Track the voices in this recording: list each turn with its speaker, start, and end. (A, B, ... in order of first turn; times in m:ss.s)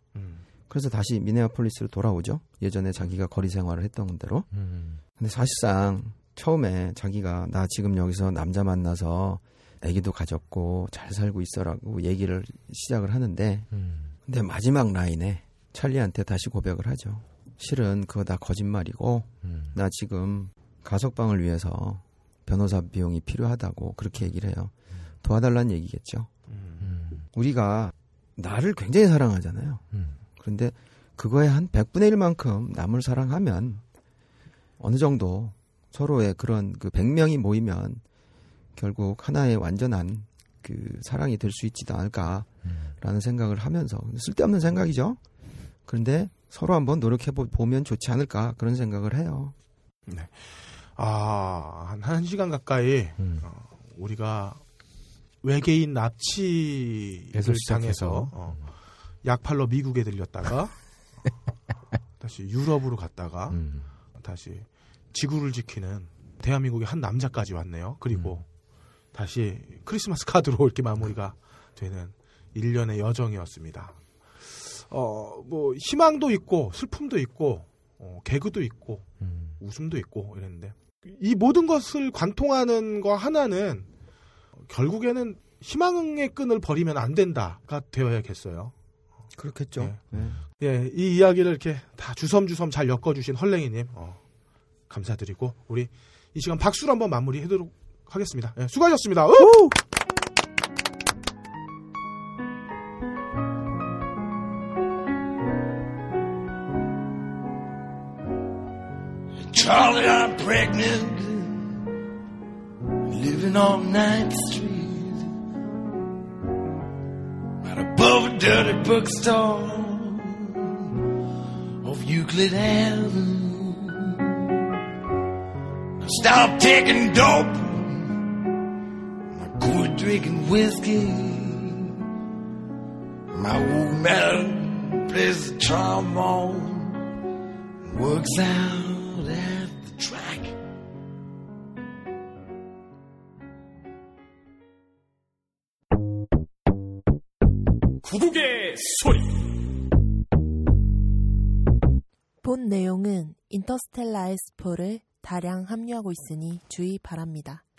0:00.2-0:00.4 A
0:00.7-0:04.5 B
0:04.5-0:05.0 C
0:05.2-0:13.7 B
0:13.7-0:14.1 C
0:14.3-0:26.3 B
0:19.4-0:19.7 C
0:26.5-0:26.8 A
0:26.8-0:27.2 C
0:27.3-0:29.8 B
0:30.4-0:33.8 B
0:34.8-0:38.0 B
0:38.8-0:45.2 B
0:45.9-0:49.5 B
0:50.1-0:54.6 A
0:53.2-0:53.4 C
0:55.4-0:58.6 A
0:57.3-0:58.6 C
0:59.2-1:00.7 A
1:02.2-1:03.6 A
1:03.5-1:03.9 C
1:04.2-1:08.4 A
1:09.1-1:23.9 A
1:24.7-1:28.7 A
1:29.4-1:30.4 B
1:29.8-1:34.2 A
1:34.9-1:39.6 A
1:49.5-1:51.8 D
1:53.1-1:55.3 D
1:57.6-2:00.6 D
2:01.8-2:04.3 D
2:06.0-2:08.2 D
2:09.4-2:11.9 D
2:13.3-2:17.0 D
2:17.8-2:20.6 D
2:28.0-2:29.3 A
2:32.4-2:37.6 E